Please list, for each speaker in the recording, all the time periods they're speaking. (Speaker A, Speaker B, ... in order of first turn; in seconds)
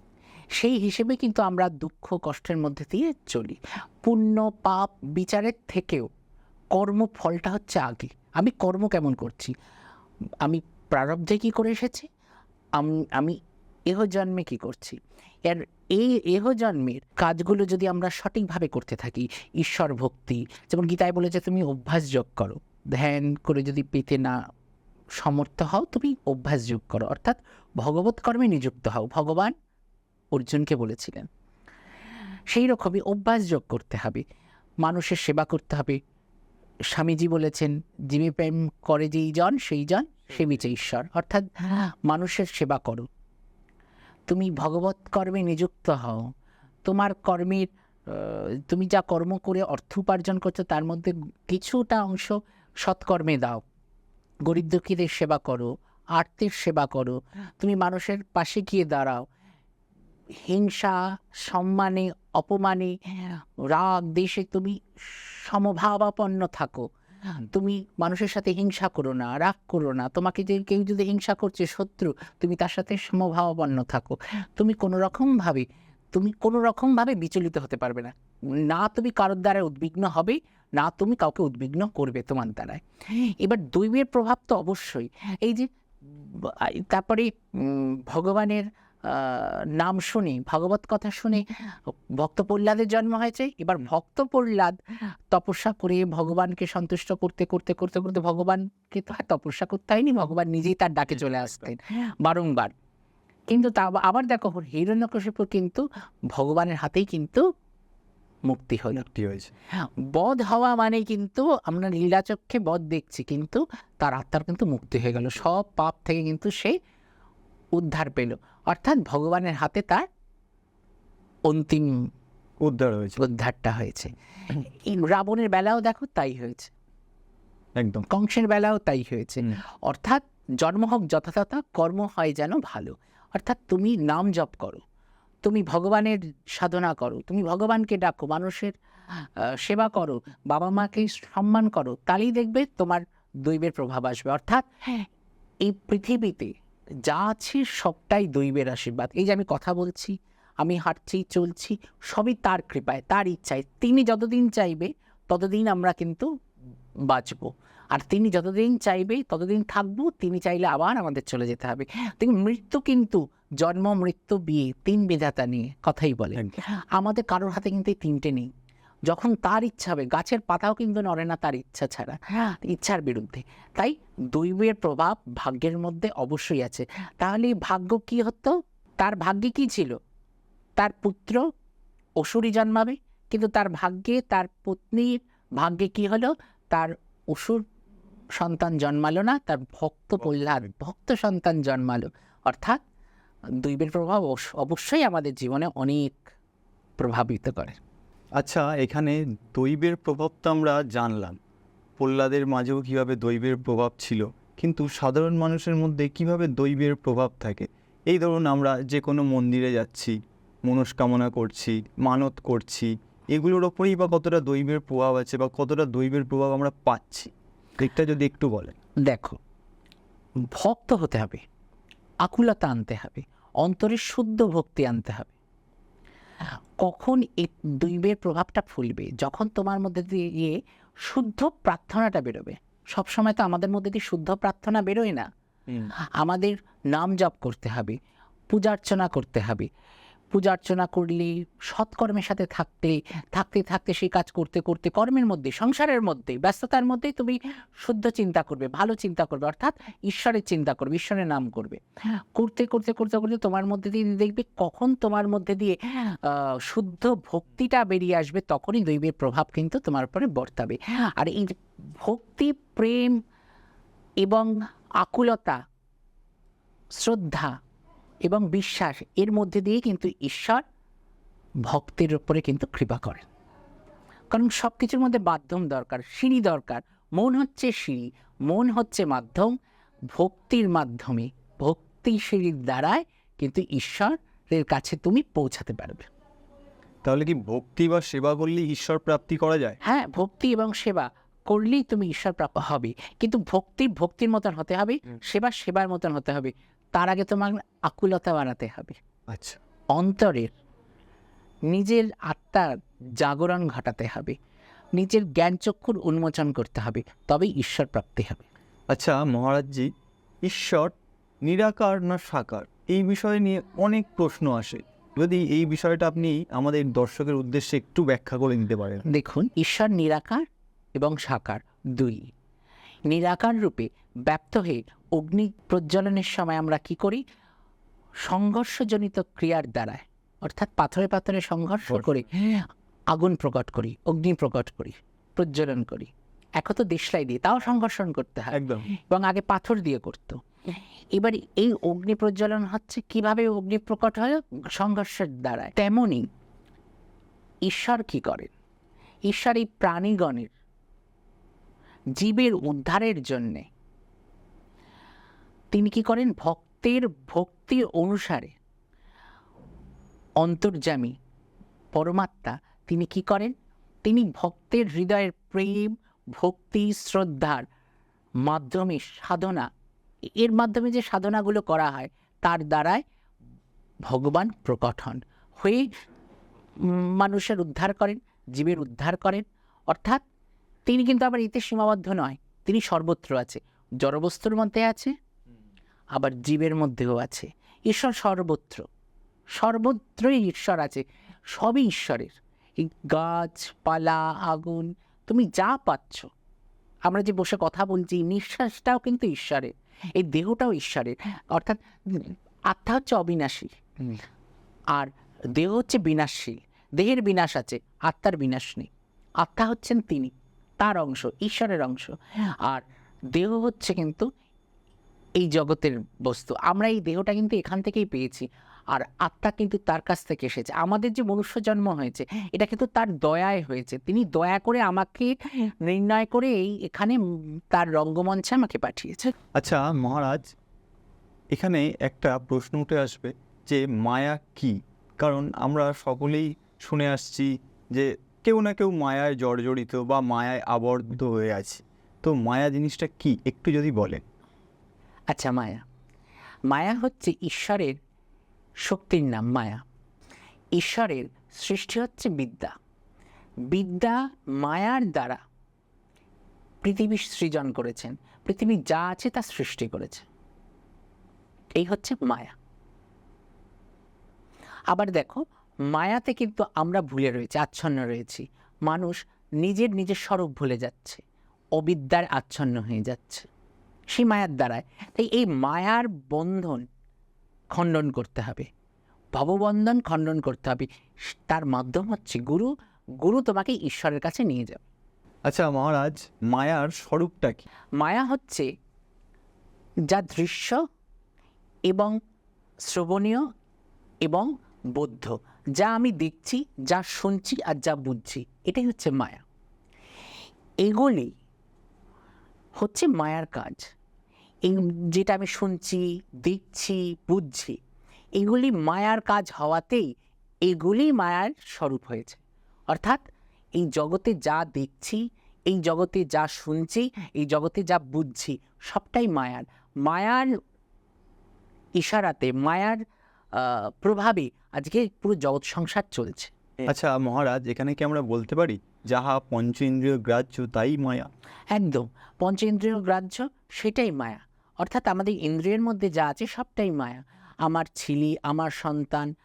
Speaker A: 0.6-6.1, 6.8-9.5, 10.4-12.1, 12.8-13.3, 13.9-24.4, 25.2-29.5, 30.3-31.3, 32.5-34.2, 34.8-36.0, 36.9-43.0, 44.3-46.2, 46.9-53.6, 54.5-59.2, 60.5-66.9, 67.4-78.1, 78.7-94.8, 95.3-102.7, 103.5-107.4, 108.5-109.0, 109.8-116.8, 117.8-120.0, 121.5-121.9, 123.2-126.7, 128.1-134.8, 135.4-138.7, 139.5-145.1, 145.7-146.5, 147.1-156.2, 157.1-168.5, 169.1-179.9, 180.8-181.4, 182.2-187.6, 188.4-192.8, 193.6-196.2, 197.0-197.8, 219.1-219.4, 220.5-221.4, 222.2-225.3, 226.8-235.3, 236.2-237.9, 238.5-239.7, 240.3-251.8, 252.3-263.1, 264.2-264.5, 265.0-265.6, 267.0-267.5, 268.2-270.6, 271.7-273.2, 274.3-279.5, 280.1-286.1, 289.8-298.9, 300.0-300.5, 301.7-304.4, 305.0-308.4, 319.1-320.4, 321.0-322.2, 323.1-327.2, 328.2-346.2, 347.7-348.5, 349.3-350.5, 352.2-353.6, 355.7-358.5, 360.4-361.1, 361.9-363.5, 364.0-367.6, 368.4-369.6, 370.4-373.0, 374.1-375.9, 376.9-380.2, 380.9-385.1, 386.1-388.8, 389.6-396.3, 397.1-404.1, 404.9-408.9, 409.4-412.8, 413.3-414.2, 415.4-425.3, 425.9-427.2, 427.7-429.3, 445.3-445.8, 446.7-448.0, 448.8-449.8, 450.8-452.7, 453.7-455.4, 456.8-460.2, 461.8-462.5, 464.9-471.2, 471.8-473.5, 474.1-476.8, 477.7-478.7, 479.3-482.7, 483.2-484.8, 488.0-488.7, 490.1-490.8, 491.9-492.1, 492.9-493.4, 494.2-499.4, 500.8-501.3, 502.8-503.8, 504.6-507.8, 508.4-510.1, 510.6-513.2, 513.8-520.5, 522.0-523.0, 523.5-526.5, 531.7-539.3
Speaker B: 109.0-109.5, 122.6-123.2, 127.8-128.0, 198.4-201.3, 202.0-210.1, 210.7-218.7, 287.0-289.8, 299.3-299.6, 308.9-309.9, 310.4-319.0, 338.5-338.9, 429.6-430.4, 431.5-444.2, 485.5-487.6, 526.9-531.3